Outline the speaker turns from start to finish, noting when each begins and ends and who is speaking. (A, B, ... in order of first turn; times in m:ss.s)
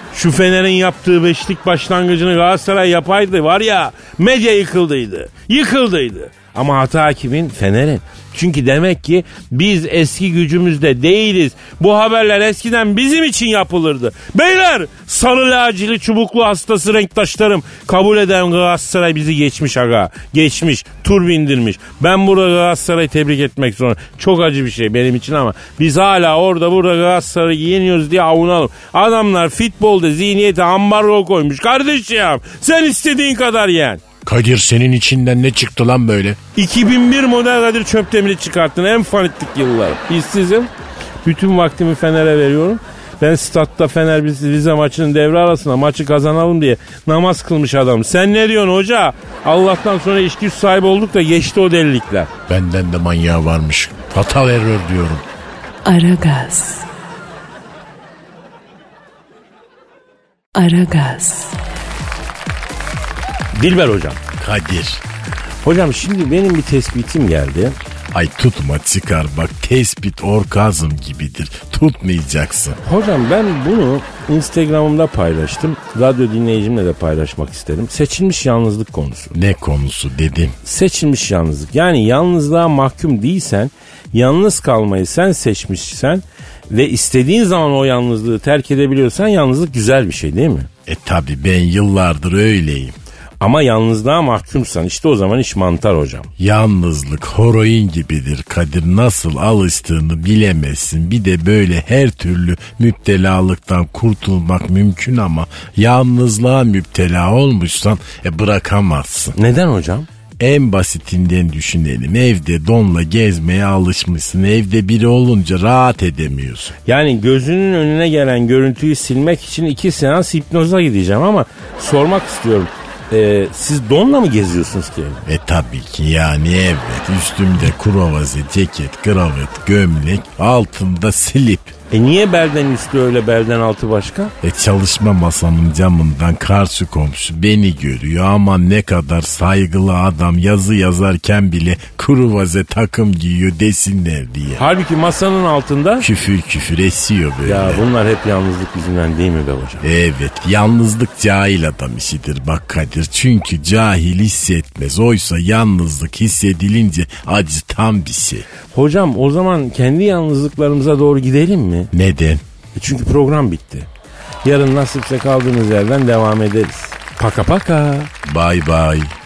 0:00.1-0:34.0 A
0:34.2-0:36.4 B
0:36.6-0:40.7 A
0:41.2-0:52.3 A
0:52.5-0:55.2 B
0:55.8-0:56.9 C
1:00.6-1:01.6 C
1:03.5-1:04.2 A
1:04.4-1:05.0 B
1:05.6-1:07.8 A
1:08.1-1:12.8 B
1:12.8-1:19.3 A
1:19.3-1:20.6 B
1:20.6-1:30.7 A
1:30.9-1:33.0 B
1:33.4-1:36.3 A
1:36.4-1:49.4 B
1:49.4-1:50.1 A
1:50.4-1:56.7 B
1:56.9-2:05.2 A
2:05.3-2:11.7 B
2:11.9-2:14.3 A
2:14.4-2:24.6 B
2:24.6-2:26.1 A
2:26.0-2:27.8 B
2:27.4-2:29.8 A
2:29.8-2:38.5 B
2:38.7-2:41.9 A
2:41.9-2:42.4 B
2:42.8-2:43.9 A
2:44.4-2:48.1 A
2:48.2-2:49.2 B